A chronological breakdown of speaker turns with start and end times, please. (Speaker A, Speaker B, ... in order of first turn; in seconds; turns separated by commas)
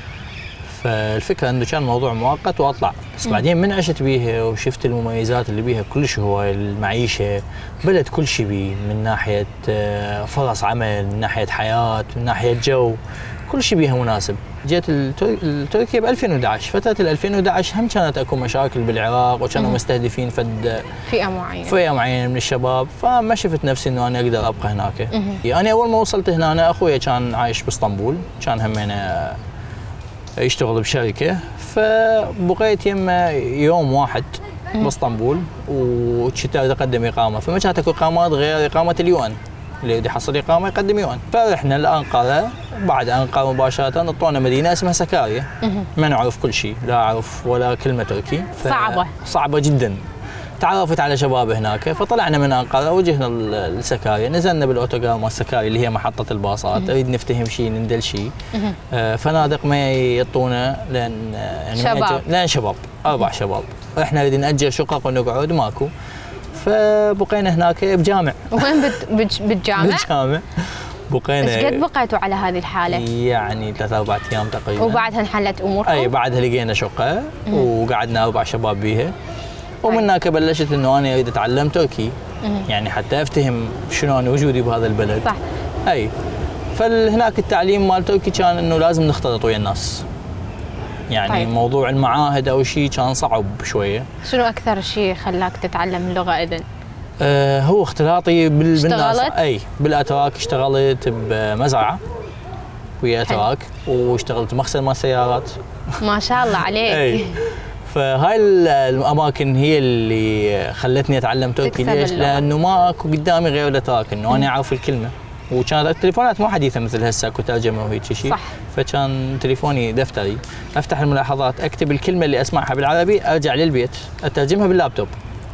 Speaker A: 0.7-21.0, Speaker B: 21.1-21.8, Speaker A: 21.6-29.4, Speaker B: 25.1-25.4, Speaker A: 30.4-50.0, Speaker B: 48.6-49.1, Speaker A: 50.6-65.9, Speaker B: 61.8-62.2, Speaker A: 66.5-69.0, Speaker B: 68.5-70.1, Speaker A: 69.7-71.8, Speaker B: 71.4-73.0, Speaker A: 72.9-75.1, Speaker B: 74.8-76.1, Speaker A: 75.8-79.1, Speaker A: 79.8-82.1, Speaker A: 82.7-85.3, Speaker A: 85.8-86.1, Speaker A: 86.7-90.0, Speaker A: 91.1-94.1, Speaker B: 94.2-96.7, Speaker A: 97.2-102.0, Speaker B: 98.8-99.3, Speaker A: 103.0-105.6, Speaker B: 106.0-107.4, Speaker A: 106.6-125.1, Speaker B: 111.6-112.4, Speaker B: 118.2-118.5